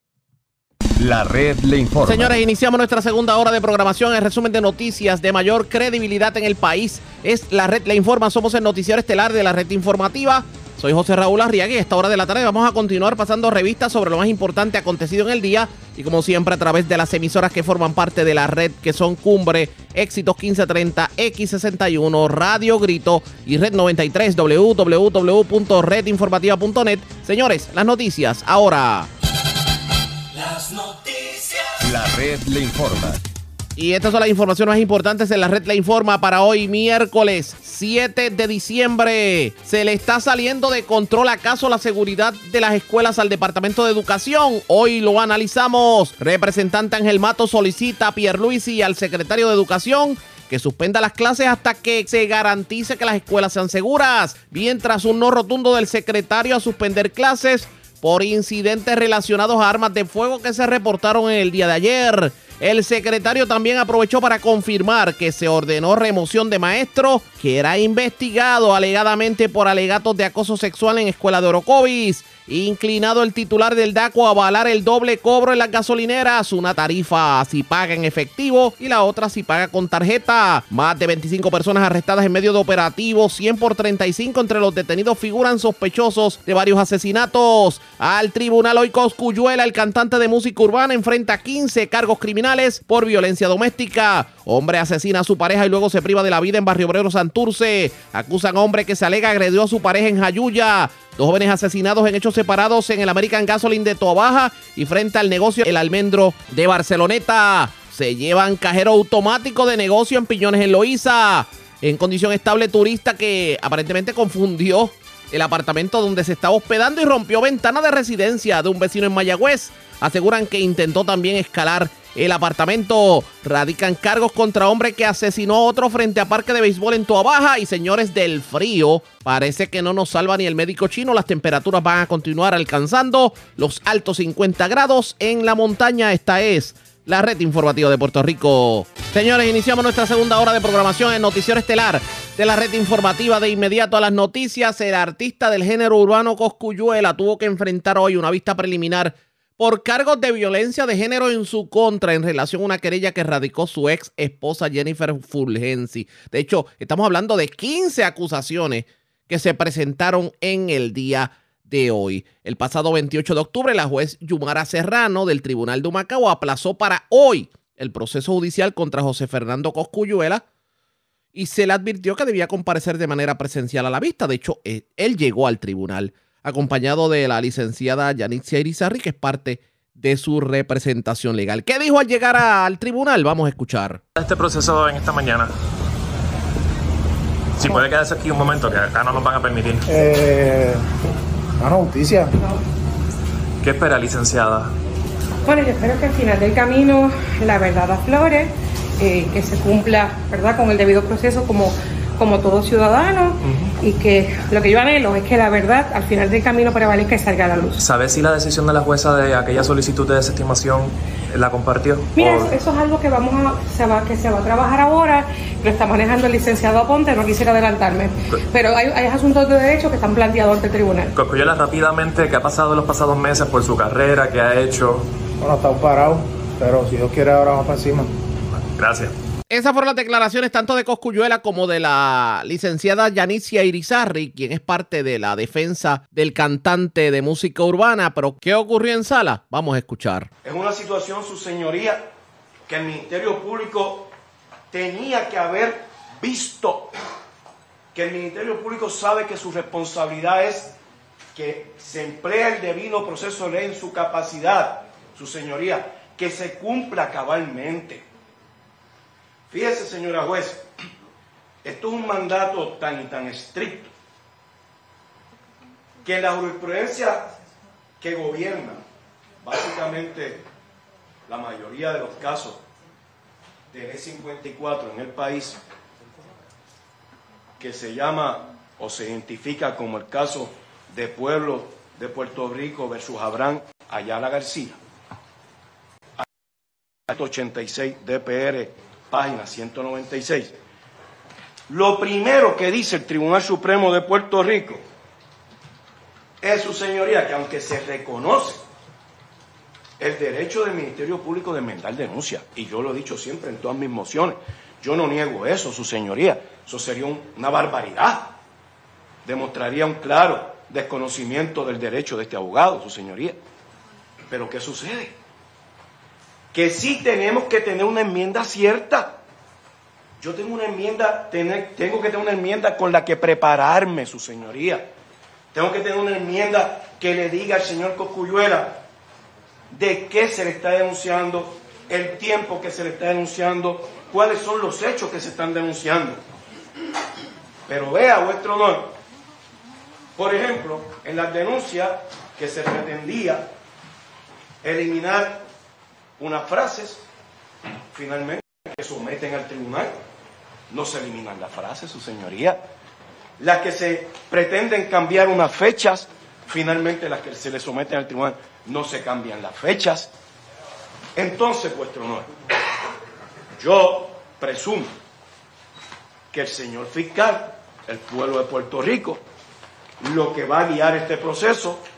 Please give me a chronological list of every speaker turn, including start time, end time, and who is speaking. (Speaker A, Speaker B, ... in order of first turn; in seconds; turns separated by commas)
Speaker A: 1.0-2.4, Speaker B: 2.1-29.1, Speaker A: 31.8-33.2, Speaker B: 33.8-170.4, Speaker B: 171.3-184.0, Speaker C: 184.2-185.5, Speaker C: 187.6-189.9, Speaker D: 189.9-190.9, Speaker D: 191.6-192.5, Speaker C: 193.6-194.7, Speaker E: 195.4-207.8, Speaker C: 203.4-203.8, Speaker C: 207.8-212.6, Speaker E: 212.2-221.1, Speaker C: 221.1-225.1, Speaker D: 225.4-228.2, Speaker C: 228.8-229.2, Speaker B: 229.5-240.3, Speaker F: 240.4-242.1, Speaker F: 242.7-244.1, Speaker F: 244.7-246.9, Speaker F: 247.9-250.8, Speaker F: 251.3-258.1, Speaker F: 259.5-260.7, Speaker F: 261.6-263.9, Speaker F: 266.0-267.4, Speaker F: 268.0-268.9, Speaker F: 269.4-270.5, Speaker F: 271.3-272.6, Speaker F: 273.7-275.6, Speaker F: 277.6-284.8, Speaker F: 287.1-290.6, Speaker F: 291.7-294.8, Speaker F: 296.4-298.6, Speaker F: 300.0-308.4, Speaker F: 309.2-313.4, Speaker F: 314.3-315.2, Speaker F: 316.5-319.2, Speaker F: 320.2-324.9, Speaker F: 325.5-328.8, Speaker F: 329.7-336.2, Speaker F: 337.7-338.9, Speaker F: 340.2-343.5, Speaker F: 344.6-345.5, Speaker F: 346.2-347.1, Speaker F: 347.9-350.0, Speaker F: 350.7-352.6, Speaker F: 353.4-360.1, Speaker F: 361.2-362.3, Speaker F: 363.6-365.0, Speaker F: 366.3-369.2, Speaker F: 370.0-371.9